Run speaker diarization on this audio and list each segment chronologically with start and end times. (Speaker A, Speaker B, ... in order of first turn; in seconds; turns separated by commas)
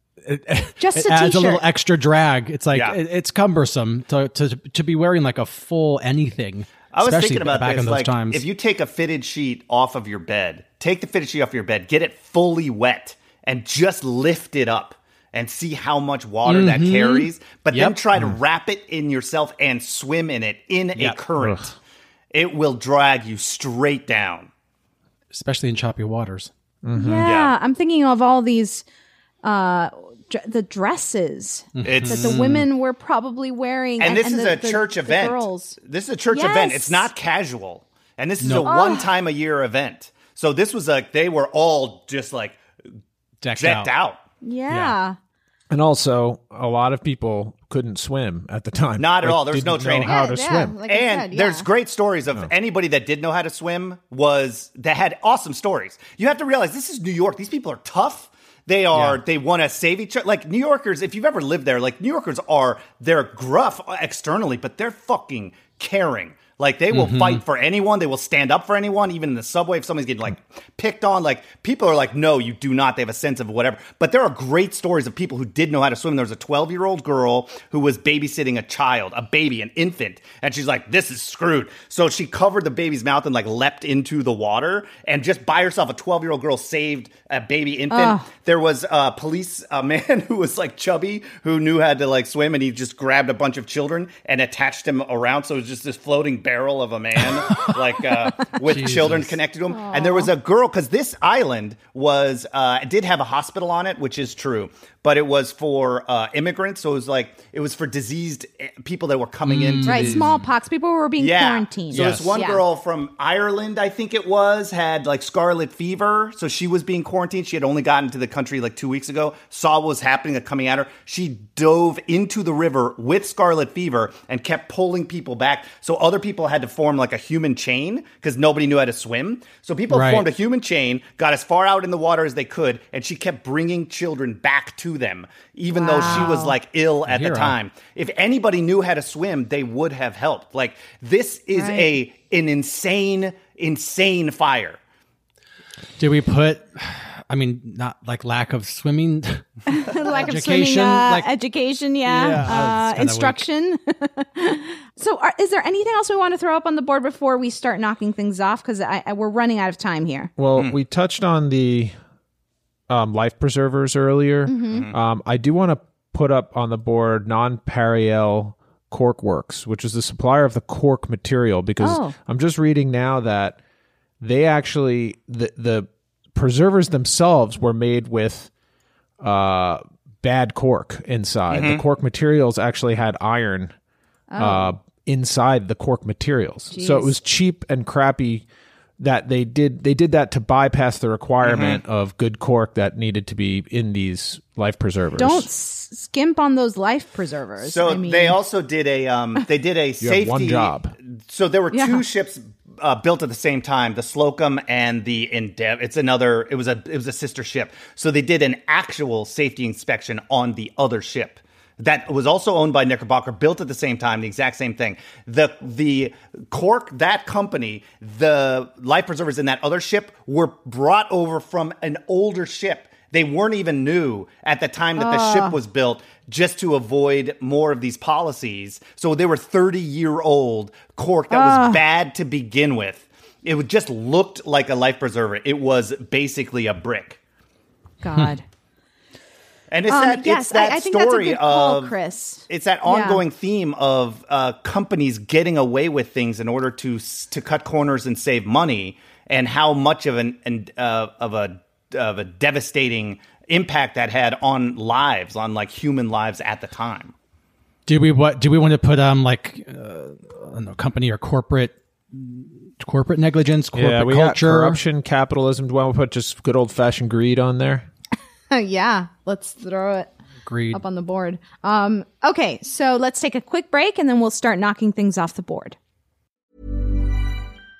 Speaker A: 0.2-8.4, Speaker B: 0.8-1.6, Speaker C: 2.7-3.0, Speaker C: 6.9-21.8, Speaker A: 16.4-18.0, Speaker C: 22.3-24.5, Speaker A: 25.3-26.5, Speaker D: 26.8-27.2, Speaker B: 26.9-28.8, Speaker C: 27.2-27.5, Speaker B: 29.4-35.8, Speaker A: 31.8-32.7, Speaker C: 31.8-32.4, Speaker C: 34.0-42.6, Speaker B: 36.3-37.1, Speaker A: 38.4-38.7, Speaker B: 38.6-39.1, Speaker A: 43.4-43.9, Speaker C: 43.6-44.2, Speaker B: 44.4-45.1, Speaker A: 44.7-45.0, Speaker D: 45.7-50.8, Speaker C: 49.0-50.2, Speaker B: 50.0-51.7, Speaker C: 50.9-110.3, Speaker A: 58.9-59.2, Speaker A: 66.9-67.4, Speaker B: 87.9-88.3, Speaker A: 98.5-99.4, Speaker B: 99.7-100.3, Speaker A: 109.5-110.3, Speaker B: 109.8-112.6, Speaker C: 111.2-144.8, Speaker A: 111.9-112.2, Speaker A: 129.9-130.2, Speaker B: 135.7-136.5, Speaker A: 136.0-136.3, Speaker A: 137.1-137.6, Speaker B: 141.5-142.0, Speaker A: 146.0-151.3, Speaker B: 149.7-160.3, Speaker D: 152.1-152.7, Speaker A: 152.3-153.4, Speaker D: 160.4-162.0, Speaker D: 162.9-173.6, Speaker B: 164.5-164.8, Speaker C: 164.7-165.0, Speaker B: 171.8-172.1, Speaker D: 174.2-178.5, Speaker D: 179.2-183.7, Speaker C: 181.5-181.8, Speaker B: 184.3-184.7, Speaker D: 184.4-188.4, Speaker B: 186.7-187.1, Speaker D: 189.0-195.5, Speaker C: 191.4-191.8, Speaker B: 195.2-198.4, Speaker C: 197.6-237.2, Speaker D: 200.0-200.9, Speaker B: 201.7-202.0, Speaker B: 225.0-225.6, Speaker B: 231.3-231.8, Speaker B: 238.0-238.4, Speaker C: 239.7-257.1, Speaker B: 239.9-243.2, Speaker A: 257.9-264.8, Speaker D: 263.7-267.9, Speaker B: 268.5-270.1, Speaker A: 270.4-270.8, Speaker B: 270.7-275.8